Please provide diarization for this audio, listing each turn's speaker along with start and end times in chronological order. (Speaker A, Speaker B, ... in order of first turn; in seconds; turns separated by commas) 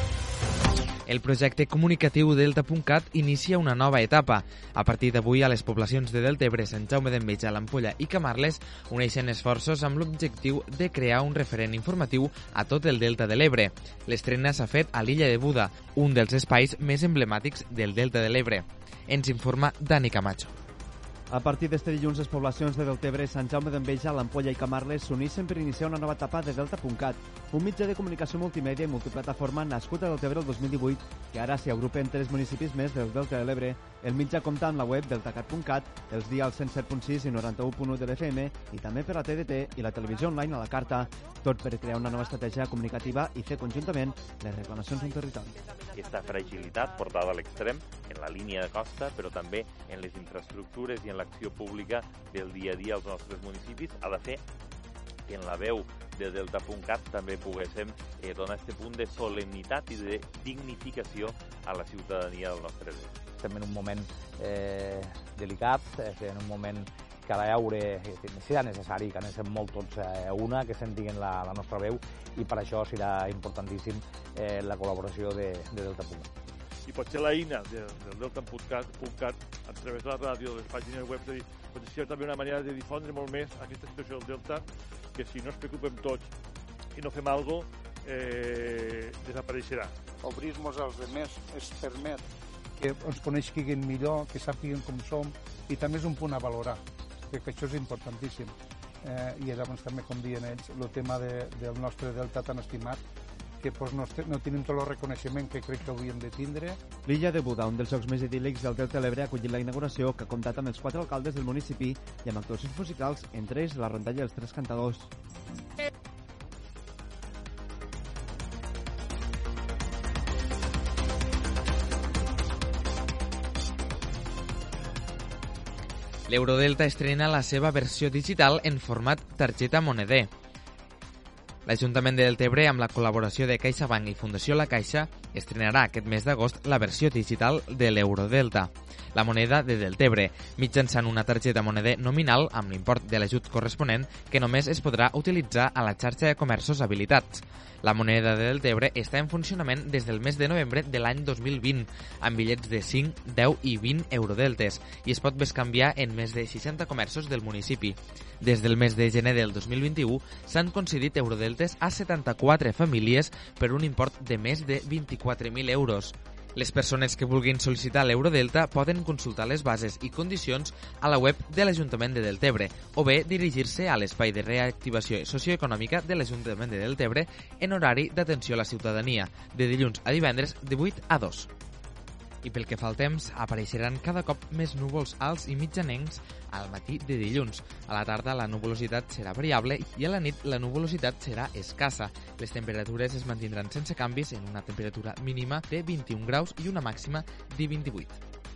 Speaker A: 1.1-20.5, Speaker B: 21.3-45.5, Speaker C: 45.9-54.4, Speaker C: 55.2-63.2, Speaker D: 63.4-76.3, Speaker E: 76.9-86.3, Speaker E: 87.0-89.9, Speaker F: 90.2-103.0, Speaker F: 103.6-106.8, Speaker B: 107.0-115.1, Speaker A: 126.3-130.3, Speaker A: 131.7-181.5, Speaker A: 182.4-198.2